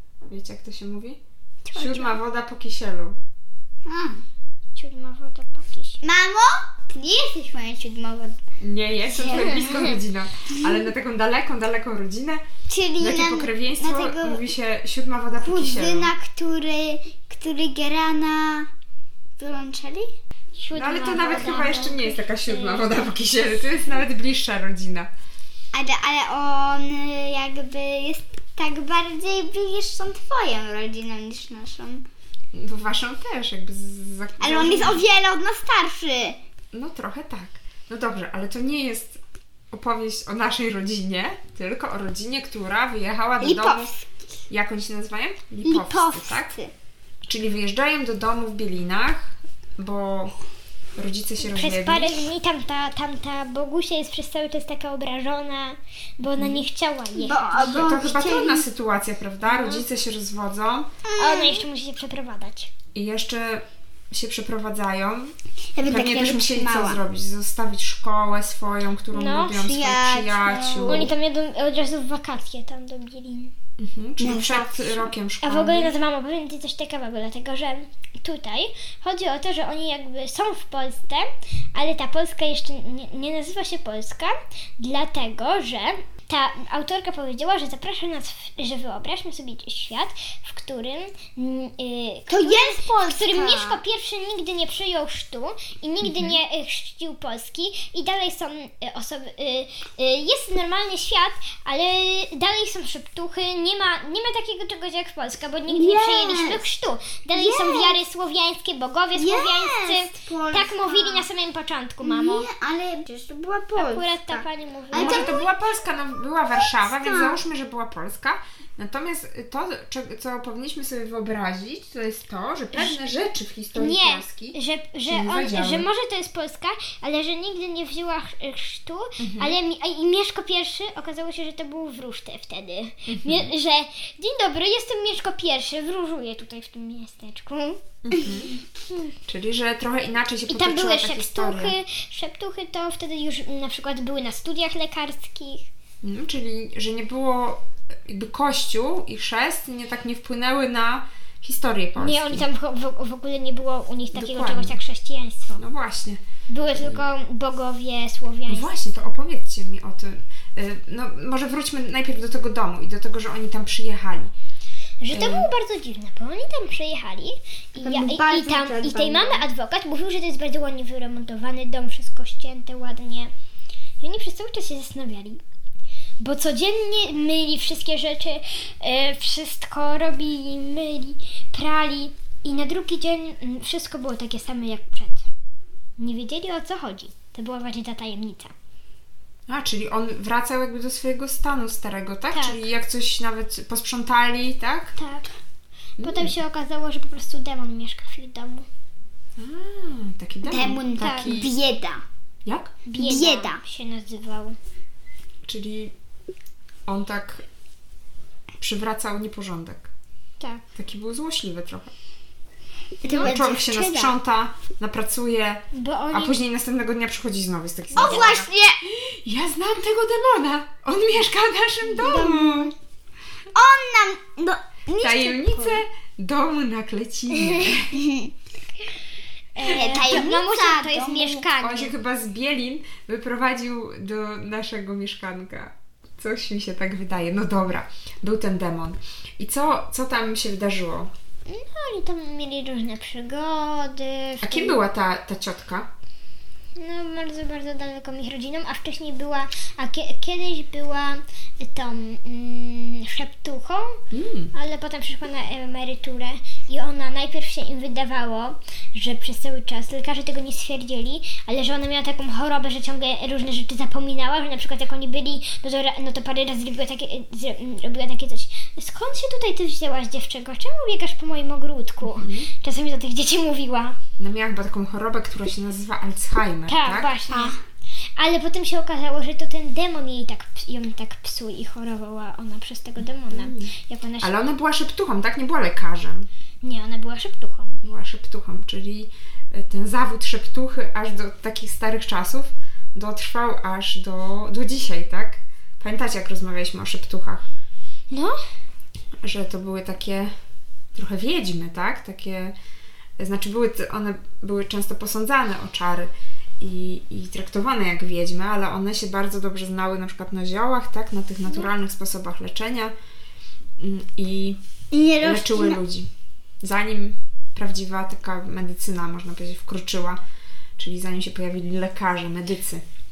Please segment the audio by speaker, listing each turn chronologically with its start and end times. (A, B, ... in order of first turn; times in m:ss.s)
0:00.3-0:01.2 A
0:01.6-0:02.2 B
0:01.7-0:03.2 A
0:03.8-0:04.2 C
0:04.8-0:06.0 B
0:06.0-0:08.4 C
0:08.6-0:12.4 A
0:09.1-0:09.7 C
0:09.2-0:10.0 B
0:10.5-0:10.8 C
0:12.7-0:14.4 C
0:13.0-0:16.1 A
0:15.4-0:18.7 C
0:19.4-0:20.1 C
0:20.5-0:22.9 B
0:20.7-0:25.1 A
0:25.7-0:32.0 C
0:32.5-0:35.0 A
0:34.4-0:36.4 C
0:36.7-0:39.2 A
0:39.7-0:43.9 A
0:43.4-0:44.3 C
0:44.5-0:46.5 A
0:45.6-0:46.7 C
0:47.2-0:50.3 A
0:51.0-0:52.3 A
0:51.4-0:57.8 B
0:56.4-0:56.6 A
0:57.1-0:58.6 C
0:57.5-1:00.9 A
0:59.5-0:59.8 B
1:01.0-1:01.6 C
1:01.2-1:02.7 B
1:02.9-1:05.3 A
1:05.7-1:07.0 C
1:05.8-1:11.1 A
1:09.1-1:09.6 B
1:09.5-1:11.1 C
1:10.9-1:13.5 B
1:13.8-1:16.0 A
1:14.2-1:15.1 C
1:15.4-1:52.5 B
1:32.3-1:33.8 C
1:36.0-1:36.4 A
1:45.7-1:46.6 C
1:47.3-1:48.0 C
1:49.1-1:51.3 C
1:52.0-1:55.5 C
1:53.8-1:55.4 B
1:54.9-2:05.9 A
1:56.6-1:57.4 C
2:02.7-2:03.0 B
2:03.7-2:17.8 B
2:09.2-2:09.6 A
2:13.1-2:13.5 A
2:18.0-2:18.5 A
2:19.3-2:21.7 A
2:20.5-2:25.7 B
2:26.0-2:32.4 A
2:32.0-2:35.6 B
2:34.1-2:34.8 A
2:35.6-2:36.2 A
2:36.5-2:38.7 B
2:36.7-2:37.0 A
2:38.5-2:44.3 A
2:45.0-2:53.3 B
2:45.1-2:45.5 A
2:47.8-2:49.4 C
2:54.0-2:55.4 B
2:56.2-3:05.3 B
3:06.0-3:08.5 B
3:09.5-3:14.9 A
3:12.3-3:12.6 B
3:15.0-3:15.3 B
3:16.0-3:16.3 A
3:16.0-3:18.7 B
3:19.4-3:21.5 A
3:20.4-3:22.0 C
3:21.0-3:21.4 B
3:22.4-3:22.8 A
3:22.8-3:24.6 B
3:23.0-3:23.6 C
3:25.4-3:25.9 A
3:26.9-3:27.4 A
3:28.6-3:29.9 A
3:30.7-3:31.9 A
3:33.0-3:34.1 C
3:33.0-3:33.4 B
3:33.1-3:42.7 A
3:35.7-3:36.4 B
3:38.0-3:38.3 B
3:38.0-3:38.8 C
3:41.9-3:42.7 C
3:43.5-3:45.8 C
3:45.0-3:48.0 A
3:47.3-3:47.7 B
3:47.9-3:48.3 C
3:49.5-3:51.9 B
3:49.6-3:51.5 C
3:51.6-4:01.1 A
4:01.5-4:04.8 B
4:04.4-4:05.9 A
4:06.8-4:14.0 B
4:14.1-4:14.5 A
4:14.5-4:34.0 B
4:32.0-4:32.5 A
4:34.2-4:37.1 A
4:36.7-4:37.5 B
4:37.3-4:37.6 C
4:38.2-4:44.4 B
4:43.3-4:46.3 A
4:46.6-4:47.8 B
4:47.8-4:57.5 A
4:58.1-4:58.4 B
4:59.2-5:00.3 A
5:00.9-5:02.5 A
5:03.2-5:12.9 A
5:13.8-5:14.6 A
5:14.9-5:15.8 C
5:15.2-5:16.1 A
5:16.6-5:20.2 A
5:20.8-5:22.8 A